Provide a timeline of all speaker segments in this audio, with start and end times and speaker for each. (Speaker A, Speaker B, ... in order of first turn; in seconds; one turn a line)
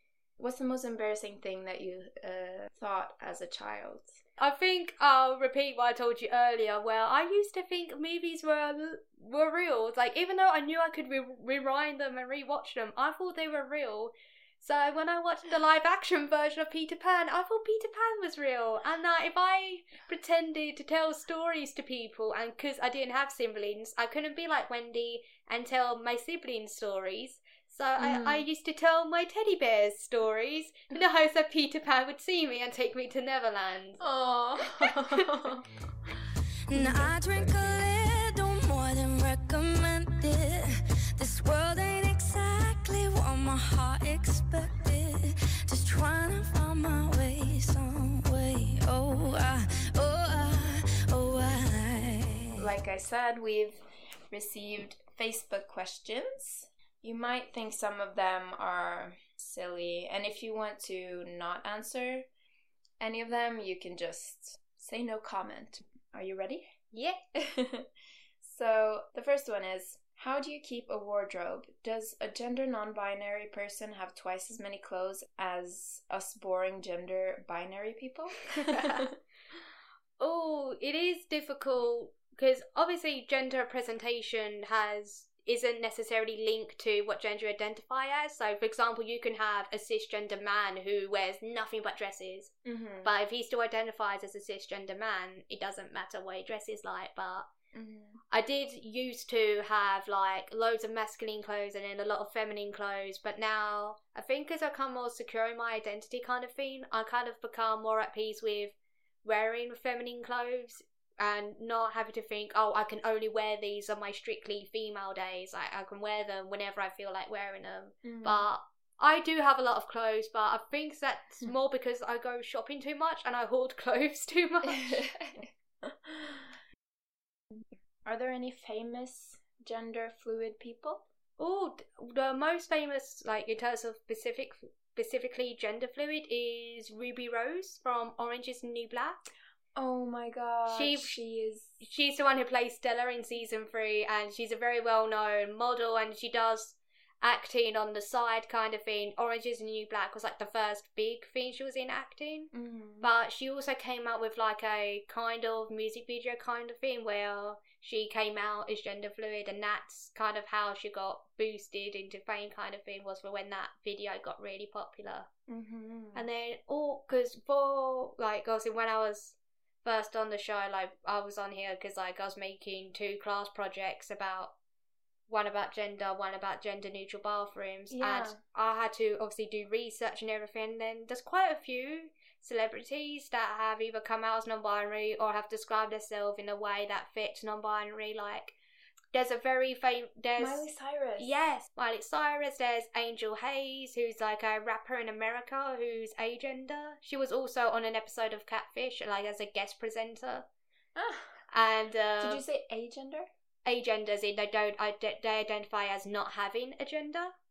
Speaker A: 0.4-4.2
Speaker B: 4.4-34.0
Speaker A: 28.0-28.5
Speaker A: 34.0-35.6
Speaker B: 34.8-35.2
Speaker C: 36.7-52.7
Speaker A: 36.7-37.5
Speaker A: 52.6-62.3
Speaker A: 63.0-66.7
Speaker B: 66.9-67.2
Speaker A: 67.4-67.9
Speaker A: 68.4-79.1
Speaker B: 78.6-79.1
Speaker B: 80.2-92.5
Speaker A: 92.7-93.1
Speaker B: 93.0-97.5
Speaker A: 97.7-98.2
Speaker B: 98.3-125.1
Speaker A: 118.0-118.5
Speaker A: 124.6-126.5
Speaker A: 127.6-131.1
Speaker B: 131.4-139.2
Speaker A: 139.8-141.8
Speaker B: 140.7-141.2
Speaker B: 141.8-152.5
Speaker A: 152.5-153.1
Speaker B: 153.0-165.3
Speaker A: 165.5-166.3
Speaker B: 166.2-174.5
Speaker B: 175.3-188.6
Speaker A: 177.9-178.4
Speaker B: 189.1-190.7
Speaker A: 190.4-191.4
Speaker B: 191.2-200.4
Speaker A: 201.0-201.4
Speaker B: 201.5-202.4
Speaker A: 202.2-203.3
Speaker B: 203.7-207.3